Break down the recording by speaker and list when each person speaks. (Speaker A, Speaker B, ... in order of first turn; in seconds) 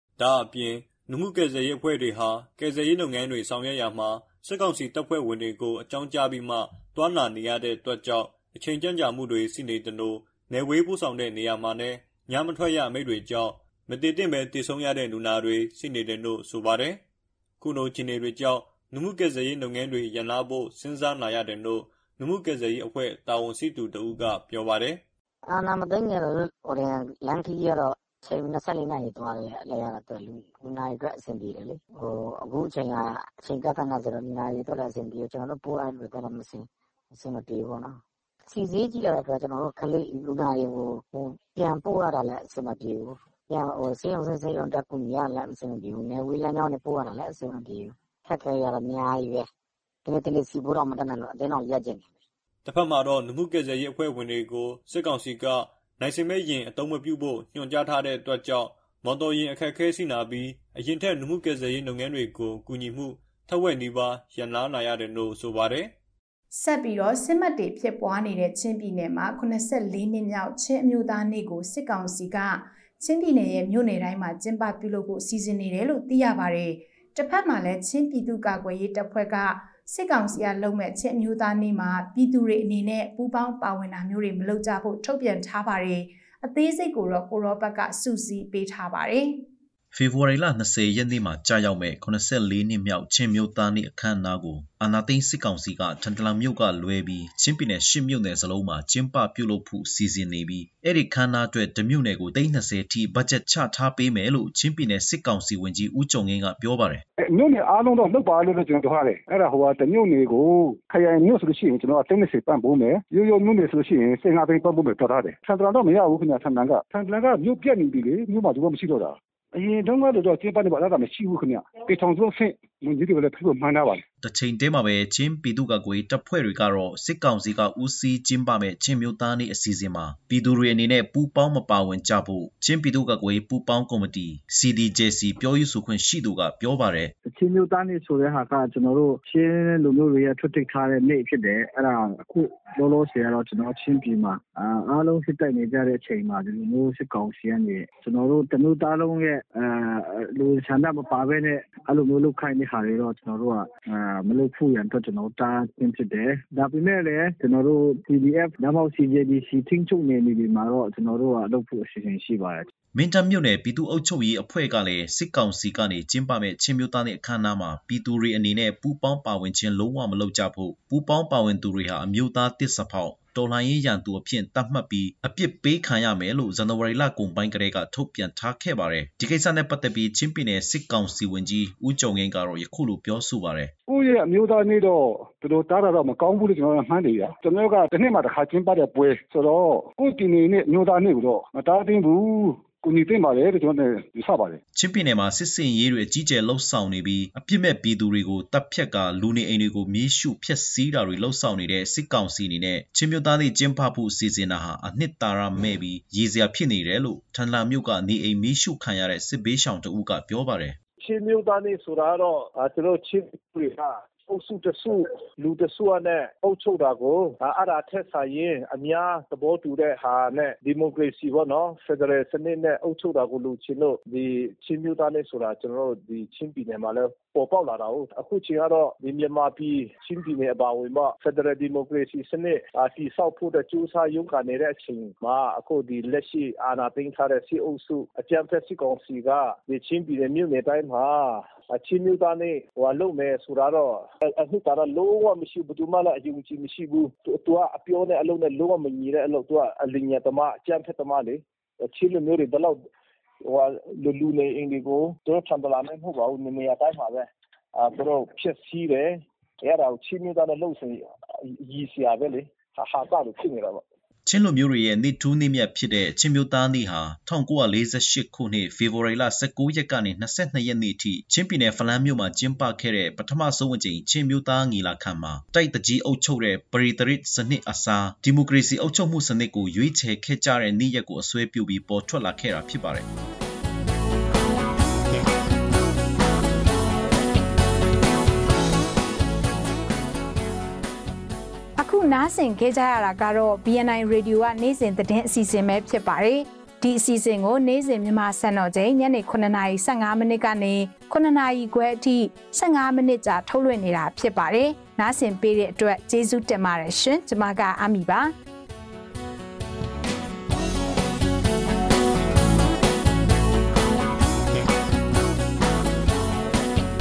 Speaker A: 0.2-17.0, 17.6-25.0, 52.6-65.9
Speaker B: 25.5-49.5, 50.0-52.1
Speaker C: 66.5-89.4, 291.8-308.3
Speaker D: 89.9-107.0, 124.2-137.1, 162.9-183.7, 194.7-210.8, 264.3-283.1
Speaker E: 107.2-124.0, 183.9-194.6
Speaker F: 137.3-162.7
Speaker G: 211.0-252.8, 253.4-263.8